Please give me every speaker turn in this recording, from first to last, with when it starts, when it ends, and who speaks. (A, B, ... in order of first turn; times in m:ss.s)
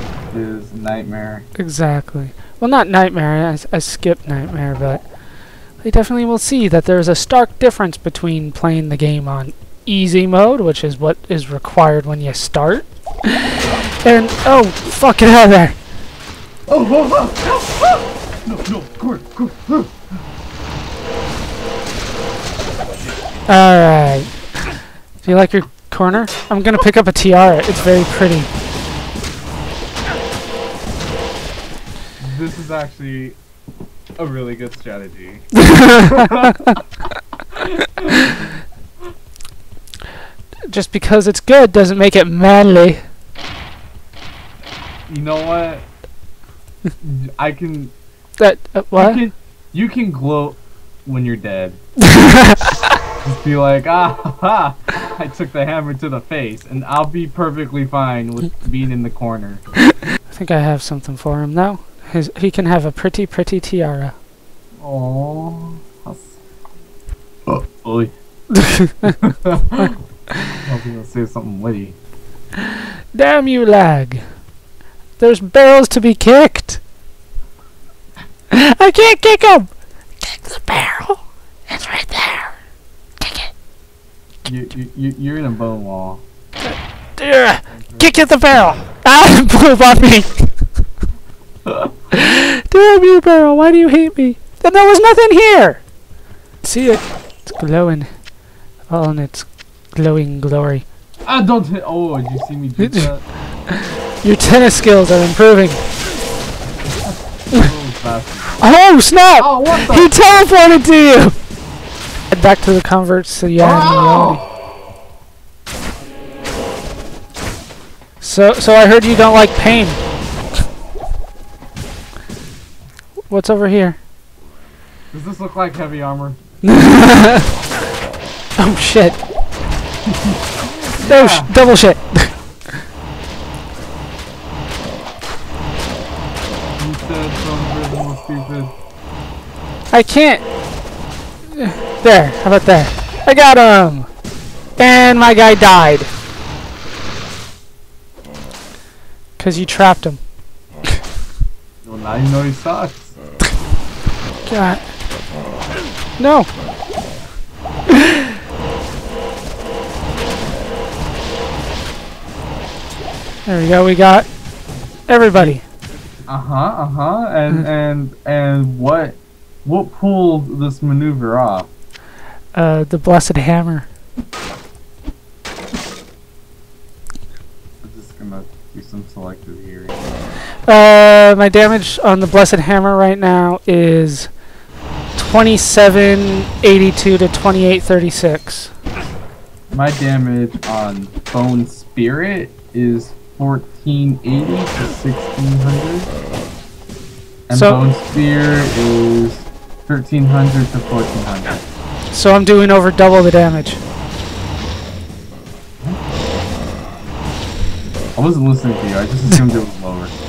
0:00.3-0:01.5 A
0:01.6-0:05.0 B
0:05.8-0:15.8 B
0:16.7-0:19.9 A
0:23.5-0:24.3 B
0:25.2-0:28.5 B
0:32.2-0:33.4 A
0:34.2-0:36.6 A
0:35.6-0:36.8 B
0:37.6-0:38.4 A
0:40.7-0:43.0 B
0:45.1-0:45.8 A
0:47.0-0:47.9 A
0:48.4-0:49.2 B
0:49.0-0:51.8 A
0:52.1-0:52.8 B
0:53.2-0:59.6 A
1:00.3-1:04.2 B
1:04.8-1:06.4 A
1:07.5-1:08.1 A
1:08.5-1:09.2 B
1:09.0-1:09.9 A
1:10.6-1:12.0 A
1:12.6-1:14.2 B
1:15.2-1:16.8 B
1:18.5-1:19.7 B
1:20.2-1:22.6 B
1:23.2-1:23.5 B
1:24.4-1:26.2 A
1:26.6-1:30.5 B
1:27.7-1:28.1 A
1:31.7-1:31.9 A
1:32.1-1:35.8 B
1:36.6-1:38.1 B
1:38.9-1:40.8 B
1:41.2-1:43.2 A
1:42.8-1:43.1 B
1:43.7-1:45.8 B
1:47.0-1:48.7 A
1:48.6-1:51.4 B
1:49.4-1:50.1 A
1:52.3-1:54.4 B
1:53.6-1:54.4 A
1:58.2-2:00.0 B
2:03.3-2:04.0 B
2:05.1-2:06.4 A
2:06.6-2:07.5 B
2:08.6-2:09.2 B
2:10.1-2:11.5 A
2:11.0-2:12.3 B
2:16.8-2:18.7 A
2:19.9-2:20.4 B
2:21.5-2:24.1 B
2:24.8-2:26.1 B
2:29.4-2:30.2 B
2:31.8-2:33.1 A
2:34.5-2:34.8 B
2:36.2-2:36.5 B
2:43.5-2:44.3 B
2:45.1-2:45.6 B
2:46.3-2:51.7 A
2:52.5-2:53.9 B
2:57.8-3:00.0 A
3:00.7-3:04.3 B
3:05.2-3:08.7 B
3:09.7-3:16.1 A
3:17.5-3:21.6 A
3:17.5-3:17.8 B
3:22.1-3:23.8 B
3:28.2-3:30.1 A